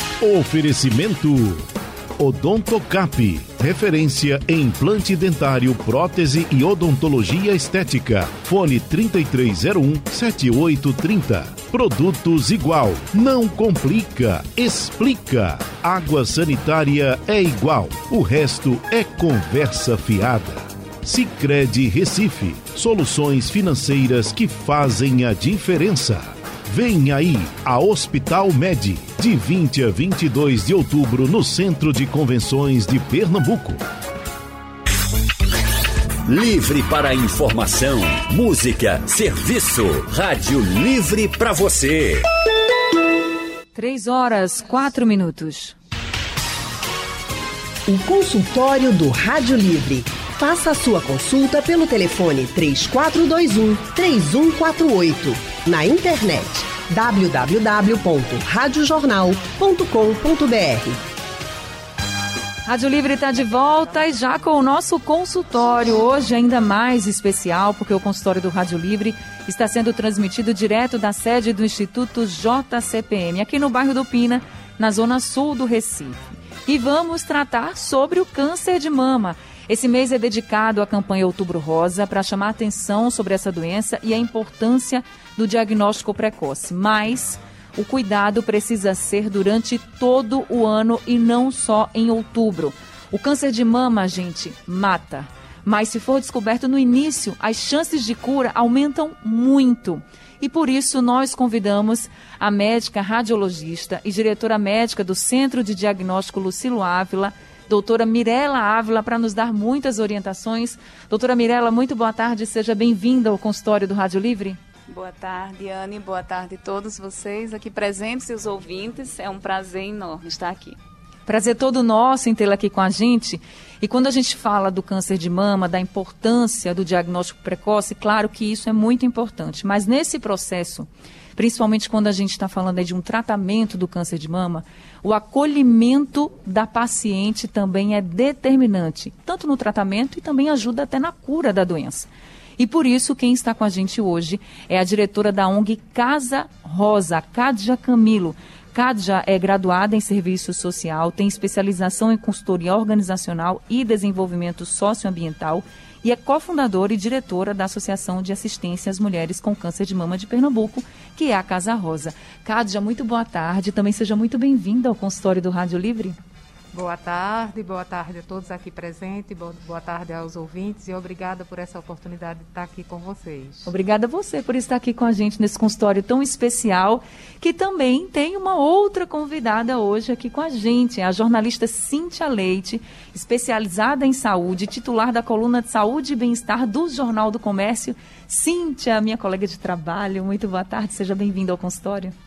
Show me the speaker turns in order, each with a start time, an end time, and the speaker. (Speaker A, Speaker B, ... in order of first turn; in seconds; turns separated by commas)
Speaker A: 0.2-33.8, Speaker B: 36.3-42.2, Speaker C: 43.8-45.8, Speaker D: 47.9-61.0, Speaker C: 62.7-114.6, Speaker E: 114.9-120.8, Speaker C: 121.3-166.2, Speaker F: 166.7-173.7, Speaker C: 173.7-192.2